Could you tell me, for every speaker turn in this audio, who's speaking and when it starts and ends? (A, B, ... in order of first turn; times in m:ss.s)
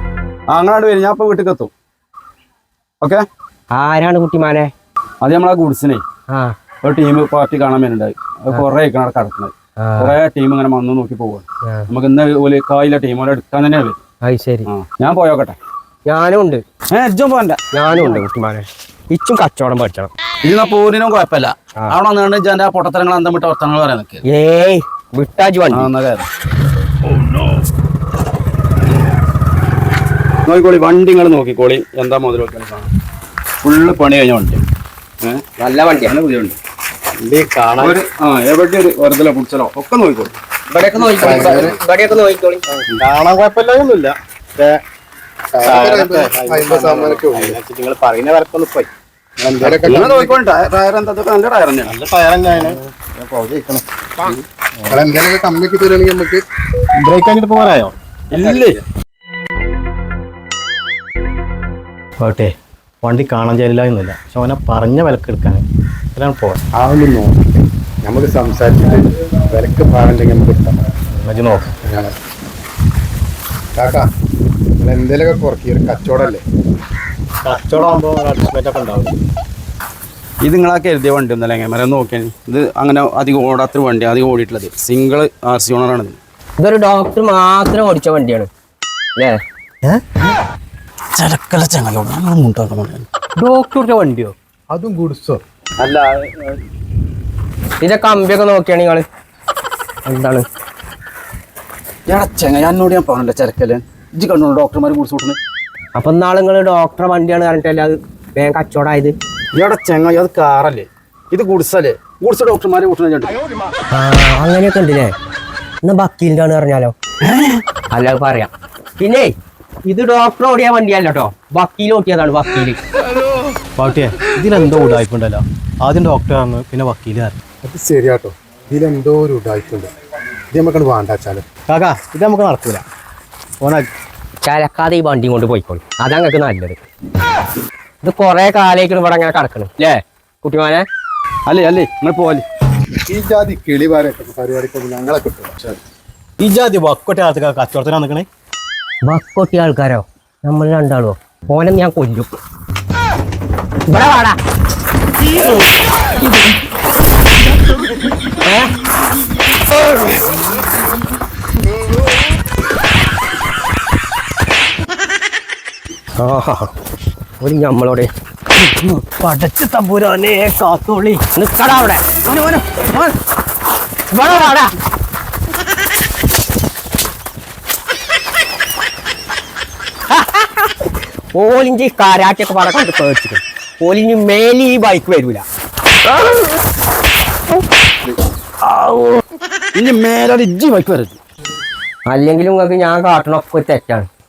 0:00.5-0:01.7 A
0:03.7-0:04.7 B
0:05.2-0:06.0 A
0:06.3-0:06.5 B
0:06.8-0:14.0 A
0:09.8-0:10.2 B
0:14.2-0:14.7 B
0:14.7-0:15.6 A
0:16.1-0:16.6 B
0:16.9-0:18.2 A
0:17.7-0:20.1 B
0:20.4-0:24.2 A
0:24.3-0:25.9 B
0:25.7-0:26.3 A
0:30.5-0:32.9 A
0:33.6-0:34.6 A
0:35.6-0:36.1 B
0:36.0-0:36.6 A
0:37.2-0:38.0 C
0:37.8-0:40.3 A
0:40.7-0:42.6 B
0:41.0-0:41.8 C
0:41.2-0:41.8 D
0:41.2-0:41.7 A
0:42.7-0:44.8 C
0:45.5-0:47.6 D
0:45.6-0:50.1 C
0:49.5-0:50.4 D
0:49.8-0:52.0 A
0:51.8-0:55.0 C
0:54.9-0:56.4 D
0:57.0-0:58.7 C
0:58.3-0:58.8 A
1:02.2-1:06.6 C
1:06.8-1:07.5 D
1:08.0-1:10.8 D
1:11.2-1:11.7 C
1:11.8-1:12.1 D
1:13.8-1:14.0 D
1:14.8-1:16.4 D
1:17.4-1:19.1 C
1:20.4-1:26.2 A
1:26.6-1:28.5 B
1:31.1-1:33.0 A
1:33.4-1:34.3 C
1:34.7-1:35.4 D
1:35.8-1:36.6 A
1:37.8-1:39.0 B
1:40.0-1:40.4 B
1:42.1-1:45.4 A
1:46.0-1:49.1 B
1:49.5-1:53.3 A
1:53.9-1:55.1 B
1:55.8-1:56.9 B
1:57.2-1:57.6 A
1:57.9-1:59.3 B
1:59.9-2:02.8 B
2:03.8-2:07.4 C
2:07.6-2:09.9 D
2:10.5-2:11.4 D
2:11.7-2:12.8 C
2:13.6-2:13.9 C
2:14.4-2:16.8 B
2:18.0-2:20.8 B
2:21.5-2:22.4 A
2:23.1-2:25.8 D
2:26.4-2:28.3 C
2:29.1-2:32.4 B
2:33.9-2:34.4 B
2:38.4-2:38.8 B
2:46.2-2:46.7 B
2:47.4-2:48.1 B
2:49.0-2:51.2 C
2:51.2-2:52.2 B
2:52.3-2:52.9 A
2:54.1-2:54.7 B
3:00.1-3:05.4 B
3:09.8-3:11.2 A
3:12.1-3:14.1 B